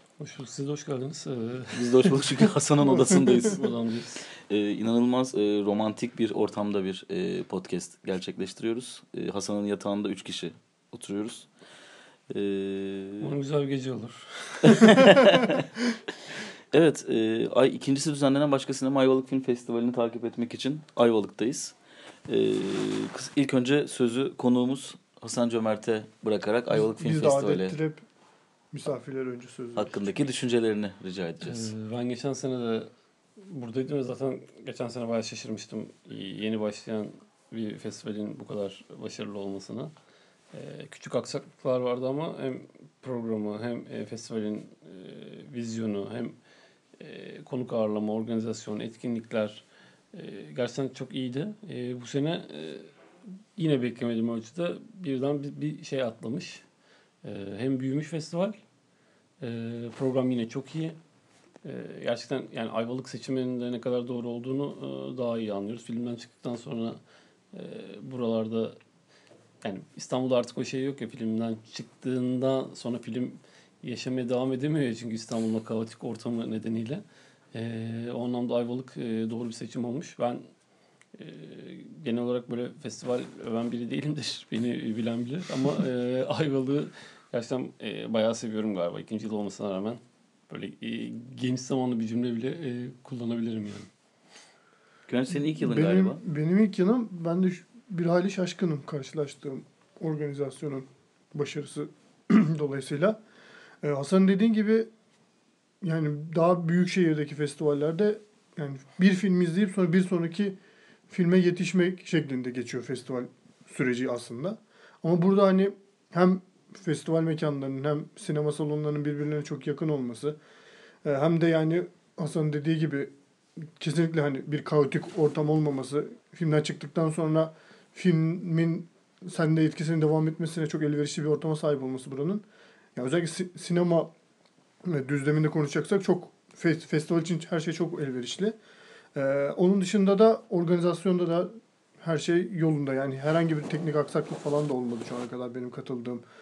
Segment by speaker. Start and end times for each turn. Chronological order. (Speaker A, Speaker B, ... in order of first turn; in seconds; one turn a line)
Speaker A: 0.2-2.2
Speaker B: 1.7-3.7
Speaker A: 3.2-4.2
Speaker B: 4.4-11.5
Speaker B: 12.3-13.3
Speaker A: 13.2-15.5
Speaker B: 14.7-15.7
Speaker B: 16.7-21.8
Speaker B: 22.3-27.8
Speaker C: 26.7-28.0
Speaker C: 28.7-30.1
Speaker B: 29.8-31.7
Speaker A: 31.4-39.9
Speaker A: 40.5-46.4
Speaker A: 47.0-52.9
Speaker A: 53.6-56.6
Speaker A: 57.2-58.6
Speaker A: 59.4-61.0
Speaker A: 61.6-67.0
Speaker A: 67.5-68.8
Speaker A: 69.6-77.0
Speaker A: 77.5-80.5
Speaker A: 81.2-93.9
Speaker B: 95.1-96.2
Speaker C: 95.3-103.2
Speaker C: 103.8-104.9
Speaker C: 105.8-110.6
Speaker C: 111.1-120.4
Speaker C: 121.0-132.4
Speaker C: 133.0-134.1
Speaker C: 134.8-138.6
Speaker C: 139.2-146.2